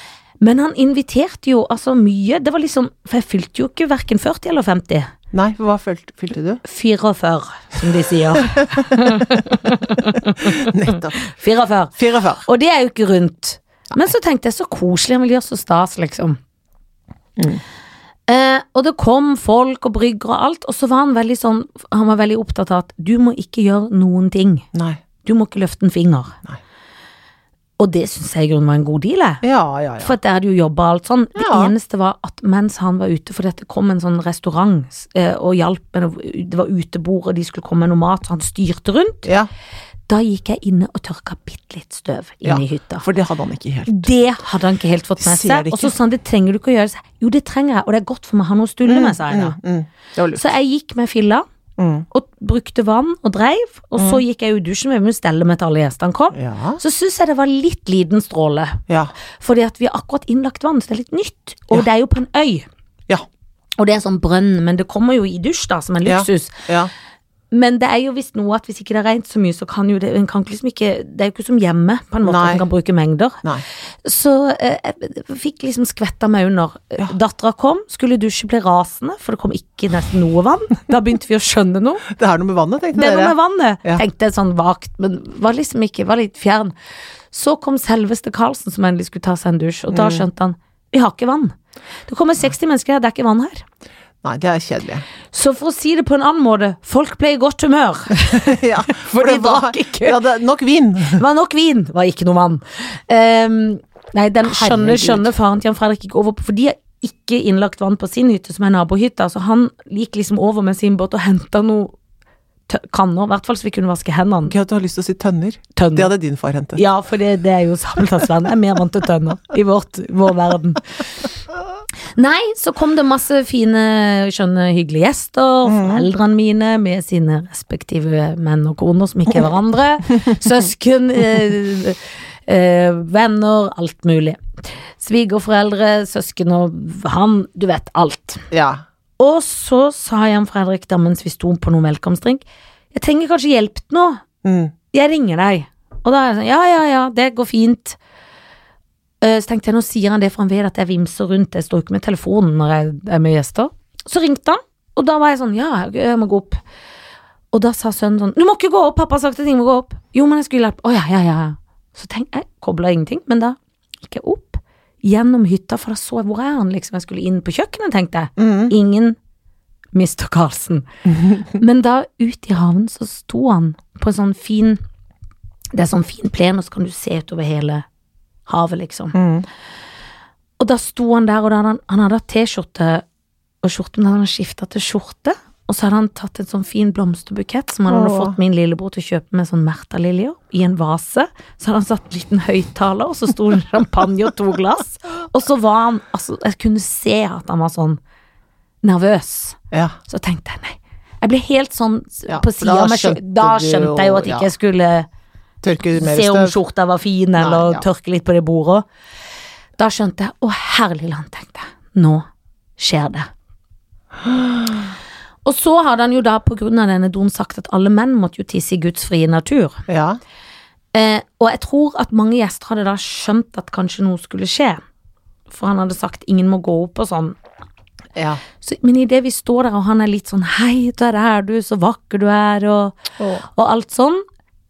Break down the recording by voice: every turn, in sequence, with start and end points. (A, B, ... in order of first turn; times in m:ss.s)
0:00.4-0:05.1 A
0:05.3-0:06.6 B
0:06.6-0:16.4 A
0:08.3-0:11.2 B
0:12.0-0:12.4 B
0:17.4-0:17.6 B
0:18.3-0:24.6 A
0:24.7-0:25.0 B
0:25.2-0:26.4 A
0:27.8-0:29.4 A
0:29.4-0:30.1 B
0:30.0-0:39.3 A
0:31.4-0:31.7 B
0:40.1-0:43.0 A
0:42.4-0:44.1 B
0:43.9-0:49.6 A
0:45.2-0:45.9 B
0:48.8-0:50.4 B
0:50.3-0:51.4 A
0:51.8-0:52.1 B
0:52.1-0:58.8 A
0:54.0-0:54.2 B
0:56.3-0:56.8 B
0:59.4-1:02.6 A
1:03.8-1:06.6 A
1:06.0-1:06.9 B
1:07.5-1:13.4 A
1:12.2-1:12.6 B
1:14.0-1:22.0 A
1:22.1-1:24.0 B
1:22.9-1:26.7 A
1:27.3-1:31.5 A
1:29.9-1:30.2 B
1:32.1-1:33.6 A
1:34.2-1:35.0 B
1:35.3-1:40.2 A
1:38.3-1:41.2 B
1:41.1-1:51.9 A
1:44.4-1:45.3 B
1:52.7-1:54.5 A
1:54.5-1:56.8 B
1:55.8-1:56.1 A
1:56.7-2:00.8 A
2:02.1-2:14.4 A
2:05.6-2:06.1 B
2:15.0-2:18.5 A
2:18.5-2:18.8 B
2:19.2-2:24.2 A
2:24.4-2:24.7 B
2:24.9-2:28.0 A
2:29.2-2:36.6 A
2:37.5-2:49.2 A
2:48.4-2:48.7 B
2:49.9-2:50.8 A
2:51.1-2:51.4 B
2:51.5-2:54.8 A
2:55.7-2:57.8 A
2:58.5-2:59.2 A
2:59.1-2:59.4 B
3:00.6-3:03.0 A
3:03.6-3:18.0 A
3:07.9-3:08.4 B
3:18.8-3:25.1 A
3:19.7-3:20.0 B
3:22.3-3:24.5 B
3:25.6-3:26.6 B
3:26.0-3:28.8 A
3:27.4-3:27.8 B
3:29.8-3:32.2 A
3:32.8-3:33.3 A
3:34.2-3:34.8 B
3:35.4-3:39.8 A
3:39.9-3:40.2 B
3:40.9-3:44.8 A
3:45.5-3:47.4 A
3:48.2-3:48.4 B
3:48.6-3:54.2 A
3:53.2-3:53.4 B